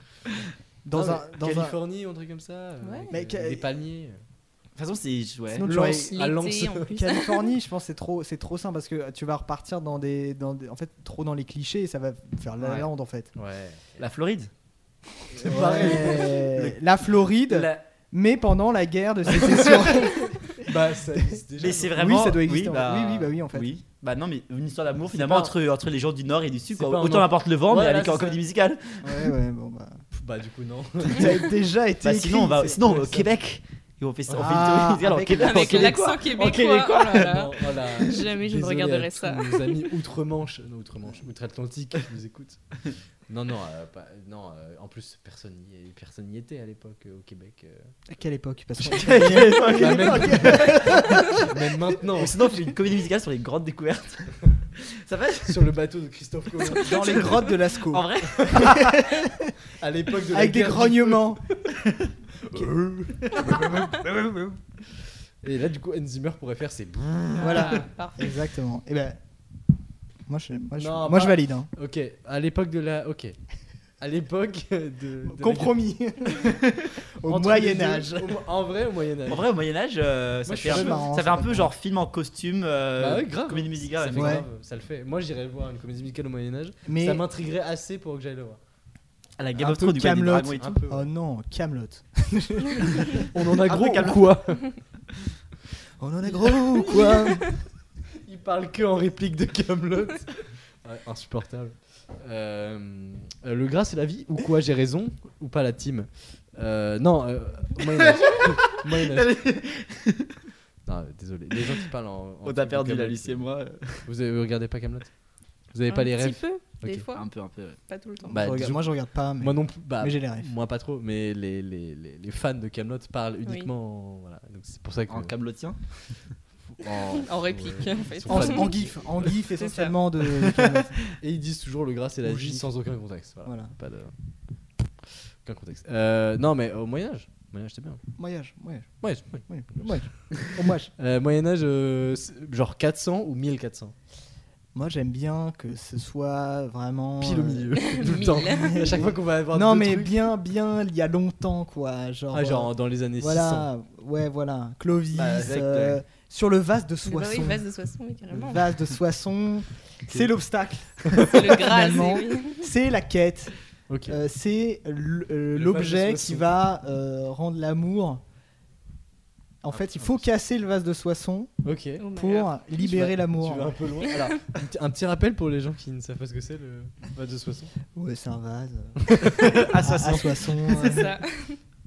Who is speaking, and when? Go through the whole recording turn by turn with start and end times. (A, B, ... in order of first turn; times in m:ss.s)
0:00.8-0:01.8 A
0:00.9-0:04.2 B
0:02.8-0:03.1 C
0:03.1-0:03.6 A
0:04.8-0:05.7 D
0:05.5-0:06.2 A
0:05.6-0:06.9 B
0:05.8-0:07.5 C
0:06.9-0:13.3 A
0:13.3-0:14.0 B
0:14.0-0:14.5 D
0:15.3-0:16.7 B
0:15.4-0:21.4 A
0:17.5-0:17.8 D
0:19.4-0:22.0 B
0:21.6-0:29.0 D
0:21.9-0:23.7 A
0:25.1-0:25.5 B
0:26.7-0:28.4 B
0:29.0-0:30.0 A
0:30.1-0:31.4 B
0:31.1-0:33.3 A
0:32.0-0:36.4 D
0:34.3-0:34.6 B
0:34.3-0:35.9 A
0:35.3-0:39.8 C
0:36.3-0:42.7 B
0:43.3-0:47.9 B
0:48.1-0:51.6 A
0:48.8-0:51.4 D
0:49.6-0:52.4 B
0:52.2-0:55.6 D
0:55.5-0:57.5 B
0:56.7-0:59.5 A
0:56.8-0:59.0 D
0:58.3-0:58.7 B
0:59.8-1:01.7 B
1:00.3-1:01.4 A
1:02.4-1:03.9 B
1:03.3-1:04.6 A
1:05.4-1:07.8 B
1:07.4-1:08.4 C
1:07.4-1:09.2 A
1:10.3-1:11.7 A
1:10.8-1:13.4 B
1:14.0-1:15.8 B
1:15.2-1:16.6 A
1:17.2-1:18.4 A
1:17.2-1:19.5 B
1:19.3-1:24.4 D
1:20.5-1:21.1 B
1:20.6-1:21.7 A
1:23.0-1:28.6 B
1:24.1-1:24.4 A
1:26.8-1:27.2 A
1:29.4-1:30.7 D
1:29.6-1:33.2 A
1:30.6-1:31.1 B
1:33.2-1:34.8 B
1:33.7-1:34.3 D
1:36.0-1:37.5 A
1:36.3-1:37.6 B
1:38.2-1:49.4 B
1:48.0-1:50.3 D
1:50.8-1:53.4 B
1:52.4-1:54.1 D
1:54.0-1:55.1 B
1:55.7-1:57.0 B
1:55.9-1:57.2 C
1:57.1-1:57.8 D
1:57.9-1:58.4 C
1:58.2-2:00.5 A
1:58.3-2:05.3 B
2:03.4-2:03.7 C
2:05.1-2:05.8 D
2:06.8-2:09.4 B
2:06.9-2:08.7 C
2:08.3-2:11.0 A
2:09.5-2:09.9 C
2:11.2-2:14.1 B
2:12.2-2:12.7 A
2:13.4-2:13.7 A
2:15.0-2:18.0 B
2:18.2-2:20.9 A
2:19.0-2:23.9 B
2:24.7-2:37.6 A
2:27.2-2:30.2 B
2:27.8-2:29.0 C
2:32.3-2:33.7 B
2:35.1-2:35.9 B
2:35.4-2:35.9 D
2:37.0-2:38.7 C
2:38.3-2:43.5 A
2:41.0-2:41.5 B
2:41.2-2:42.6 C
2:43.9-2:44.2 B
2:44.1-2:48.2 A
2:45.5-2:46.6 B
2:49.6-2:51.5 A
2:49.7-2:50.2 B
2:51.6-2:52.1 B
2:52.0-2:52.5 C
2:52.1-2:53.7 A
2:52.8-2:57.7 B
2:57.9-3:01.2 A
2:59.0-2:59.6 B
2:59.4-3:01.0 D
3:00.8-3:01.6 C